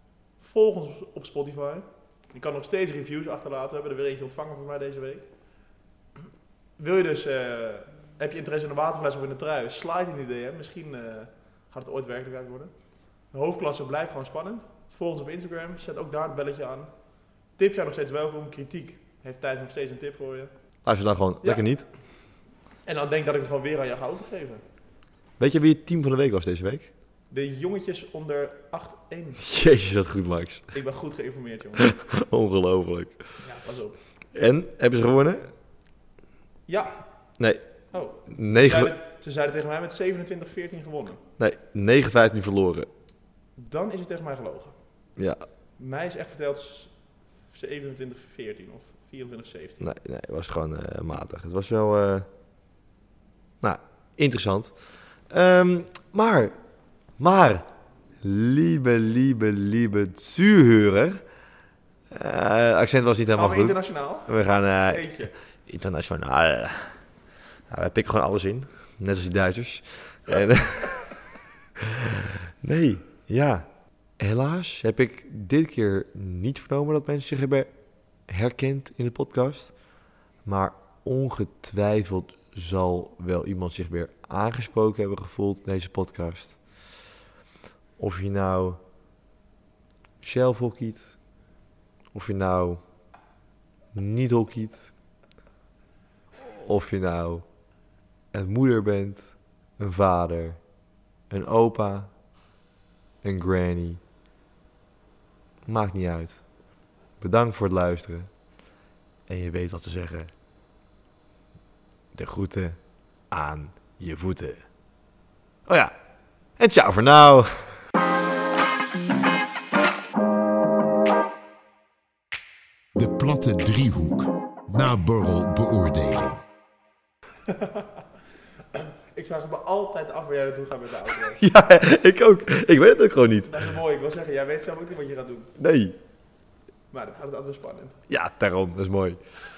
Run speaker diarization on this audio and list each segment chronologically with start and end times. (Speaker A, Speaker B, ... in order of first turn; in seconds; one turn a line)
Speaker A: 0.4-5.3
Speaker A: 6.8-12.7
Speaker A: 13.3-16.9
Speaker A: 17.5-20.5
Speaker B: 20.9-21.9
Speaker A: 22.9-24.6
Speaker B: 25.4-26.9
Speaker A: 27.3-29.4
Speaker B: 29.4-30.7
Speaker A: 30.7-32.0
Speaker B: 31.8-33.2
Speaker A: 33.4-34.0
Speaker B: 34.3-35.5
Speaker A: 36.7-37.0
Speaker A: 37.9-41.2
Speaker B: 38.3-38.9
Speaker B: 41.4-42.9
Speaker A: 43.6-44.8
Speaker B: 45.2-45.5
Speaker A: 45.8-49.9
Speaker B: 49.8-52.3
Speaker B: 53.6-54.8
Speaker B: 55.3-56.5
Speaker B: 57.2-57.7
Speaker B: 58.2-61.2
Speaker B: 62.1-67.0
Speaker A: 63.4-65.3
Speaker B: 67.7-73.7
Speaker B: 74.2-77.7
Speaker B: 78.3-79.7
Speaker B: 80.5-86.6
Speaker B: 88.0-88.8
Speaker B: 90.2-91.2
Speaker B: 92.1-92.8
Speaker B: 93.9-94.9
Speaker B: 96.4-97.5
Speaker B: 98.3-100.6
Speaker B: 101.3-102.1
Speaker B: 103.2-104.0
Speaker B: 105.7-106.4
Speaker B: 107.2-108.3
Speaker B: 109.3-110.3
Speaker B: 112.1-112.8
Speaker B: 113.3-114.6
Speaker B: 115.7-116.0
Speaker B: 116.6-117.8
Speaker C: 123.0-126.4
Speaker A: 127.5-127.9
Speaker A: 128.7-131.4
Speaker B: 131.4-133.7
Speaker A: 133.5-135.5
Speaker B: 135.6-136.0
Speaker A: 136.9-138.0
Speaker B: 138.1-139.2